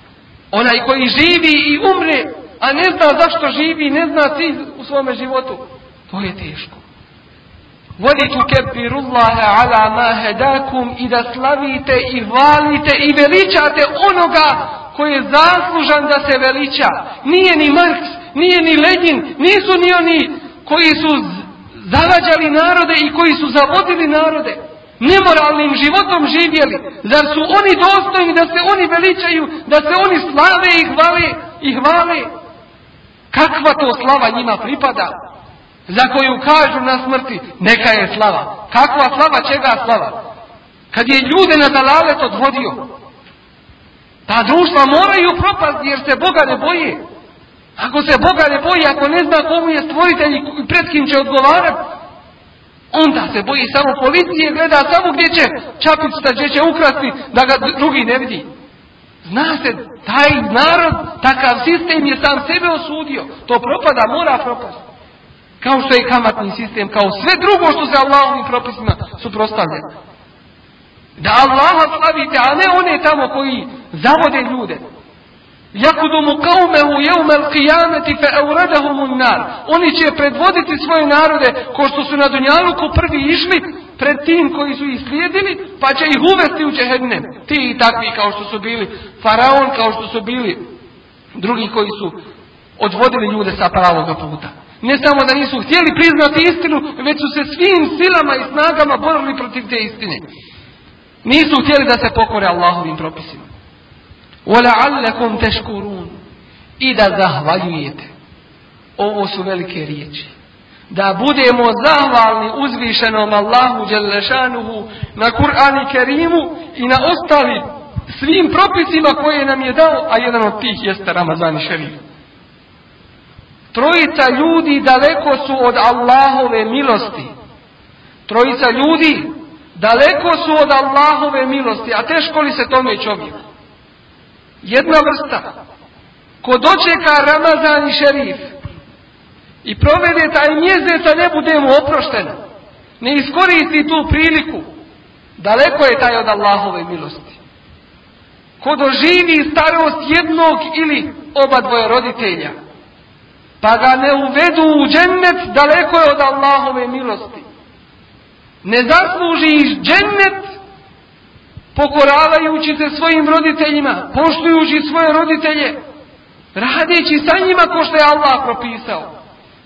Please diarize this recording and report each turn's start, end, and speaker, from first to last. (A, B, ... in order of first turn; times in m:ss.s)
0:00.5-0:06.8 A
0:08.0-0:32.3 A
0:33.3-0:35.2 A
0:35.9-0:40.2 A
0:40.9-0:42.9 A
0:44.3-0:47.0 A
0:47.8-0:51.8 A
0:52.9-0:58.5 A
0:59.2-1:04.8 A
1:05.6-1:09.9 A
1:11.2-1:14.8 A
1:15.7-1:30.6 A
1:31.3-1:32.2 A
1:32.8-1:40.2 A
1:41.2-1:43.5 A
1:44.4-1:46.2 A
1:46.8-1:48.1 A
1:49.0-1:50.3 A
1:50.9-2:02.0 A
2:03.7-2:07.3 A
2:08.3-2:13.4 A
2:14.6-2:15.4 A
2:16.4-2:18.5 A
2:19.6-2:22.4 A
2:23.0-2:24.7 A
2:25.4-2:27.4 A
2:28.6-2:32.5 A
2:33.6-2:37.4 A
2:38.6-2:40.6 A
2:41.7-2:45.8 A
2:46.5-2:49.1 A